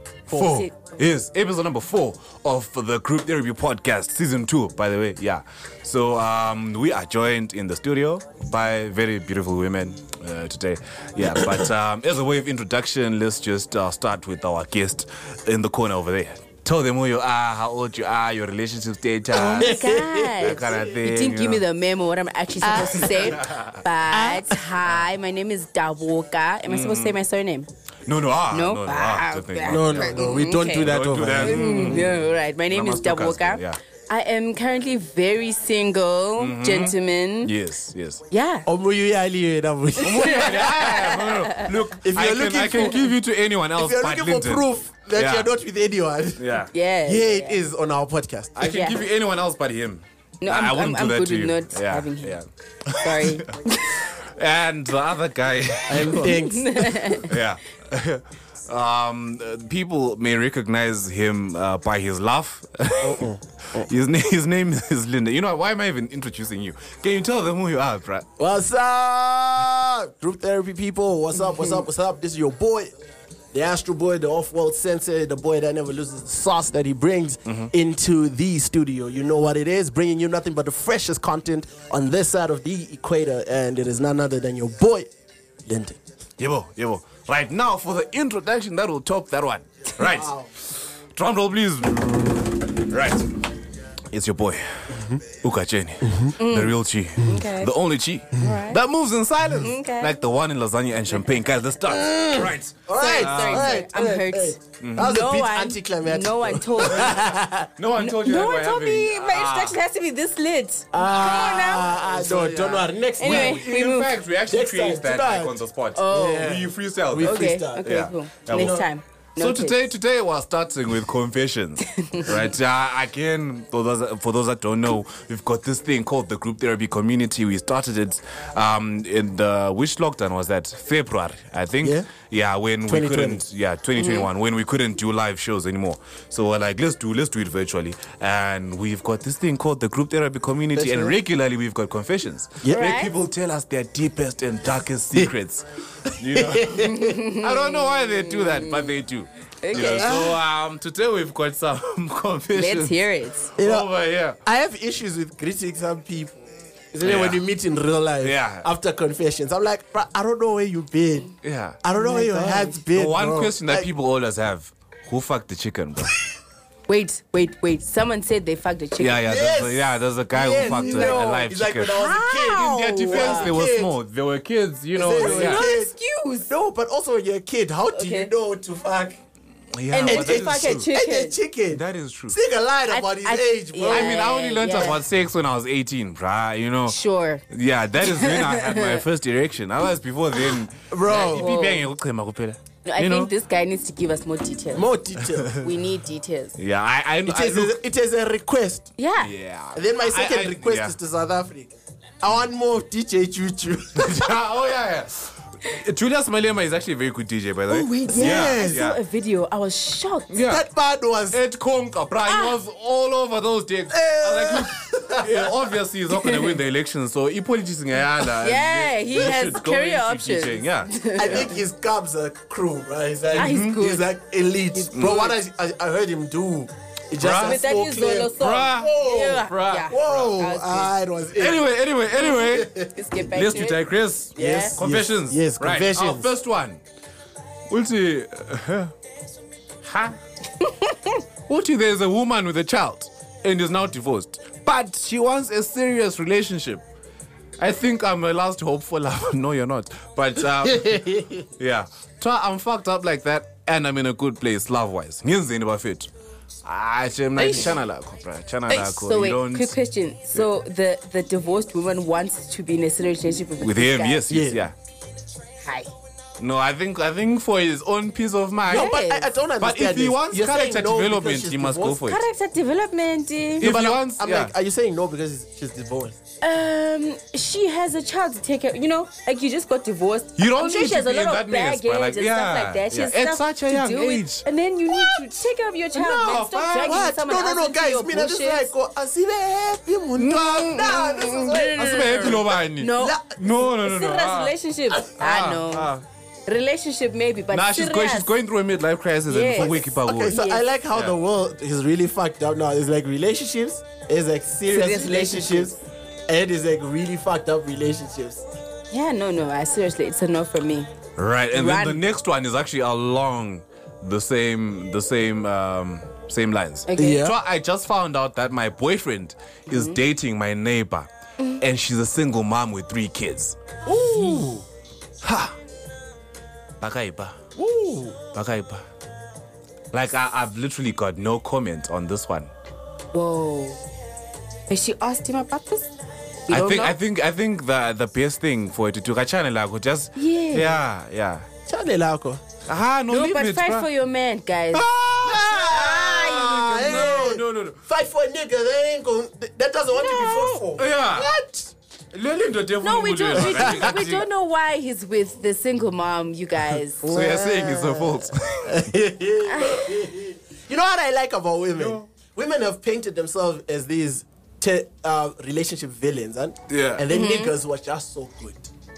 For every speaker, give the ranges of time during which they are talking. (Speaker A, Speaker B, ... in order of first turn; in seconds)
Speaker A: 0.3-21.6, 23.3-23.8, 26.7-27.2, 28.1-33.8, 36.4-38.2, 40.0-45.5, 46.4-46.7, 48.5-56.4, 57.2-68.3, 86.4-93.2, 94.1-103.8, 104.8-105.1, 107.8-109.8, 113.2-118.9, 119.4-153.0, 153.6-154.4, 157.0-157.4, 158.2-158.7, 161.4-161.8, 162.9-166.2, 169.0-172.0, 172.6-175.7, 179.8-180.9, 181.7-182.4, 183.9-193.3, 196.6-197.8, 199.2-200.9, 204.0-209.0, 210.3-210.6, 211.3-221.5, 223.3-223.8, 224.9-225.4, 227.2-227.6, 228.4-230.2, 231.4-236.8, 237.7-238.9, 239.8-240.2, 241.5-246.8, 247.6-256.1, 256.6-259.8, 263.6-264.7, 266.4-268.9, 269.6-272.2, 273.6-274.5, 280.4-284.4, 285.9-287.1, 290.2-294.6, 295.2-296.0, 297.5-300.4, 311.2-321.1, 321.6-324.5, 325.2-325.6, 326.8-328.8, 329.9-332.5, 336.5-341.5, 342.7-343.9, 344.7-347.8, 349.9-351.3, 352.1-354.3, 357.1-358.8, 361.8-362.1, 366.7-367.1
Speaker B: 0.3-0.7, 19.3-27.7, 28.5-30.9, 31.4-37.5, 38.3-38.7, 40.0-41.8, 42.7-43.0, 46.7-47.6, 48.6-49.0, 50.4-52.4, 53.0-54.0, 56.1-57.3, 96.4-97.7, 98.4-98.8, 99.6-100.1, 102.9-107.3, 108.0-114.1, 116.0-116.5, 117.2-119.8, 121.9-122.3, 134.0-134.3, 142.7-143.1, 146.8-149.0, 149.6-150.3, 152.6-153.5, 161.9-162.8, 166.9-169.3, 170.5-171.3, 171.9-173.5, 175.1-176.5, 177.9-178.3, 179.9-181.4, 182.9-185.0, 186.9-187.4, 188.0-189.0, 190.4-191.8, 192.8-194.9, 195.6-196.5, 199.0-199.3, 207.7-210.3, 212.3-212.6, 216.1-216.5, 218.3-221.5, 223.3-224.1, 227.3-230.9, 232.2-233.8, 234.3-234.8, 240.6-241.2, 257.4-257.8, 258.7-264.2, 265.6-265.9, 268.7-269.3, 272.0-273.7, 276.4-288.7, 290.7-295.9, 296.5-298.3, 299.3-300.6, 304.7-305.8, 308.9-310.9, 311.5-312.0, 316.9-317.3, 319.7-320.0, 333.1-333.8, 334.7-335.9, 336.5-336.9, 340.1-340.8, 343.1-344.9, 345.7-347.1, 352.8-357.0, 359.5-359.9, 367.1-367.5
Speaker C: 11.2-11.6, 19.3-20.8, 22.6-23.4, 24.1-24.6, 29.7-32.1, 38.7-41.1, 42.0-43.1, 43.8-46.5, 47.1-48.6, 55.9-57.2, 63.0-63.9, 68.4-72.9, 73.5-85.1, 85.7-86.0, 90.0-90.5, 94.9-95.2, 101.9-107.7, 110.9-113.7, 114.5-117.9, 118.5-118.9, 131.8-132.1, 132.9-133.4, 140.8-141.2, 146.3-147.1, 149.8-150.4, 153.6-153.9, 154.4-161.3, 161.8-163.9, 169.2-173.9, 174.9-175.9, 176.5-179.2, 180.0-184.2, 190.9-191.5, 194.7-195.7, 197.3-198.9, 199.7-204.4, 208.1-208.9, 210.4-211.4, 213.9-215.5, 221.2-231.7, 232.4-232.9, 234.4-236.3, 250.7-251.4, 264.3-264.7, 268.7-272.1, 273.6-276.2, 286.3-292.4, 292.9-293.4, 299.6-305.7, 306.3-308.4, 317.0-317.4, 323.9-324.6, 341.7-342.4, 345.2-351.7, 353.4-354.0, 357.0-368.7